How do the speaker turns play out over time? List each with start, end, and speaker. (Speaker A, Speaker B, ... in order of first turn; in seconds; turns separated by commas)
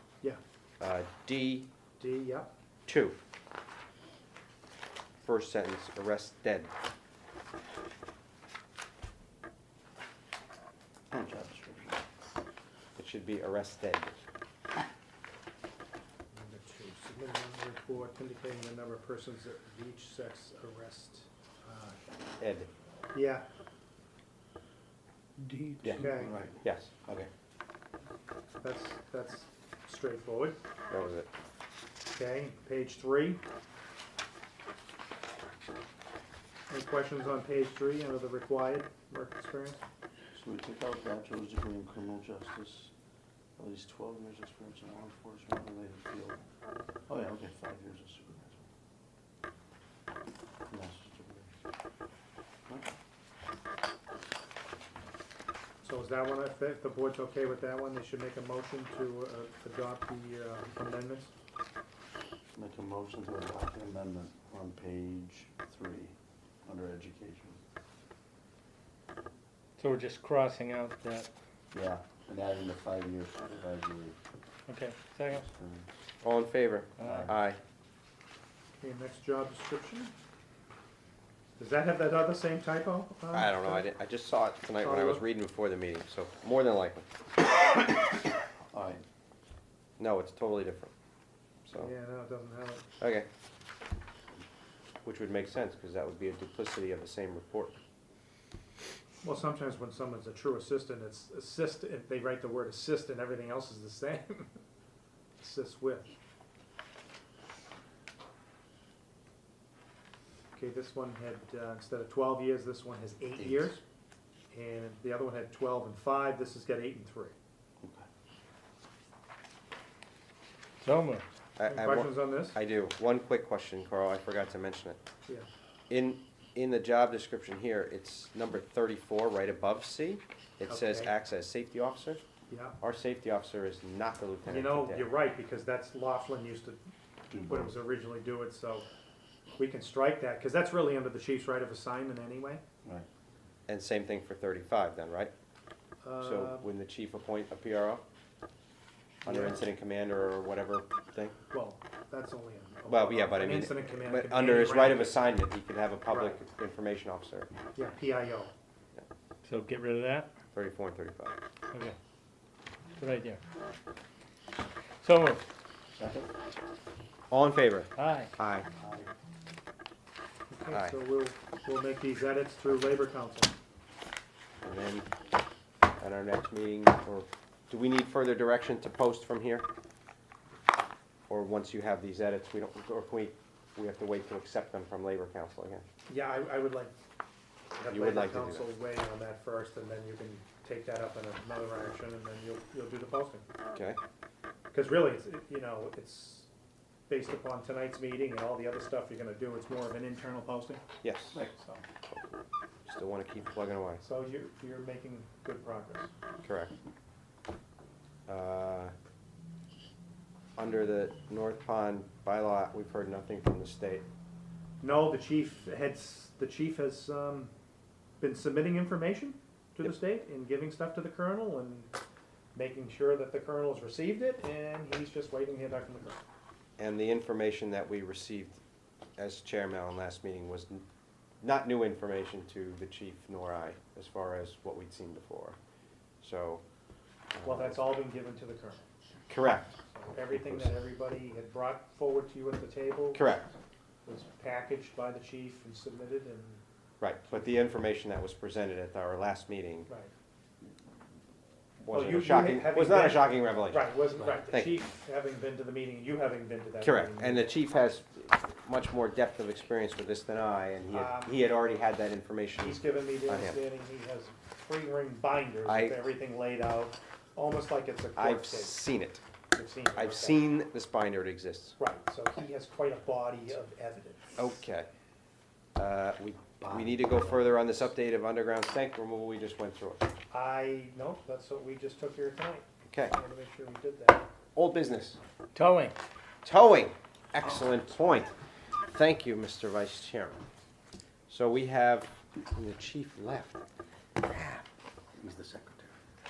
Speaker A: 0.8-1.7, Speaker B: 2.0-2.5, Speaker A: 2.9-3.2, Speaker A: 5.2-6.7, Speaker C: 11.1-12.0, Speaker A: 12.9-14.2, Speaker B: 16.3-22.0, Speaker A: 22.4-22.7, Speaker B: 23.1-23.5, Speaker D: 25.4-25.9, Speaker C: 25.8-27.3, Speaker B: 25.9-26.4, Speaker A: 26.6-26.9, Speaker B: 28.6-30.6, Speaker A: 30.9-31.3, Speaker B: 32.1-33.4, Speaker B: 36.7-39.8, Speaker C: 40.3-42.9, Speaker C: 43.6-46.4, Speaker C: 47.1-48.6, Speaker C: 50.7-51.5, Speaker B: 55.8-61.3, Speaker C: 62.5-67.6, Speaker D: 69.8-71.3, Speaker C: 71.7-74.2, Speaker D: 74.7-75.5, Speaker C: 75.3-75.9, Speaker A: 76.2-77.6, Speaker D: 77.0-77.3, Speaker C: 77.0-77.3, Speaker B: 78.8-80.1, Speaker B: 81.6-83.9, Speaker A: 83.3-87.0, Speaker B: 84.8-85.2, Speaker C: 88.7-89.0, Speaker A: 90.0-90.9, Speaker B: 91.7-92.8, Speaker A: 93.0-93.2, Speaker A: 95.0-97.8, Speaker B: 99.2-104.5, Speaker B: 105.4-106.1, Speaker B: 110.5-113.8, Speaker C: 113.4-113.8, Speaker B: 114.5-117.3, Speaker C: 117.8-118.0, Speaker D: 120.8-121.2, Speaker A: 121.6-125.0, Speaker B: 121.6-122.6, Speaker A: 125.9-132.2, Speaker B: 130.7-131.1, Speaker B: 132.5-132.8, Speaker A: 132.8-135.1, Speaker B: 134.4-136.8, Speaker C: 137.3-137.7, Speaker B: 137.4-138.8, Speaker B: 139.6-142.6, Speaker A: 143.7-145.3, Speaker B: 146.0-146.7, Speaker A: 146.2-148.0, Speaker B: 149.2-149.6, Speaker A: 149.2-151.3, Speaker B: 151.5-155.4, Speaker A: 152.9-157.5, Speaker B: 156.1-156.4, Speaker B: 157.7-158.5, Speaker D: 159.4-160.3, Speaker A: 160.5-161.4, Speaker D: 161.7-162.0, Speaker D: 163.0-163.4, Speaker D: 165.0-165.4, Speaker C: 165.9-166.3, Speaker A: 167.3-168.7, Speaker D: 167.9-168.3, Speaker C: 168.8-169.1, Speaker B: 170.5-173.5, Speaker A: 174.6-175.1, Speaker A: 176.0-179.7, Speaker A: 181.3-185.8, Speaker B: 186.1-186.9, Speaker B: 187.8-193.4, Speaker A: 187.9-188.7, Speaker A: 193.7-194.0, Speaker B: 194.7-196.5, Speaker B: 197.1-200.8, Speaker A: 201.0-201.4, Speaker B: 201.5-201.8, Speaker A: 202.8-204.0, Speaker B: 204.0-206.1, Speaker A: 206.4-206.7, Speaker A: 208.3-208.9, Speaker A: 210.6-214.0, Speaker B: 214.8-217.5, Speaker B: 218.2-221.9, Speaker B: 222.5-226.2, Speaker A: 226.8-228.6, Speaker A: 229.2-230.8, Speaker A: 231.4-235.6, Speaker A: 236.2-236.6, Speaker A: 237.3-237.8, Speaker B: 237.4-238.8, Speaker A: 239.3-239.8, Speaker B: 239.8-243.3, Speaker A: 240.3-240.7, Speaker A: 243.1-243.5, Speaker B: 244.0-246.6, Speaker A: 247.0-249.9, Speaker A: 251.8-254.8, Speaker B: 251.9-257.5, Speaker A: 256.8-263.6, Speaker B: 260.9-261.4, Speaker B: 262.6-268.8, Speaker A: 265.6-266.0, Speaker A: 268.1-269.2, Speaker B: 269.5-270.4, Speaker A: 269.9-271.8, Speaker B: 271.8-274.4, Speaker A: 274.4-274.9, Speaker A: 275.8-280.0, Speaker C: 276.6-277.9, Speaker B: 280.3-284.3, Speaker A: 282.9-283.1, Speaker A: 284.5-285.2, Speaker D: 285.5-285.9, Speaker A: 286.4-288.3, Speaker A: 288.9-290.4, Speaker A: 291.3-293.6, Speaker A: 294.2-294.6, Speaker C: 295.2-295.9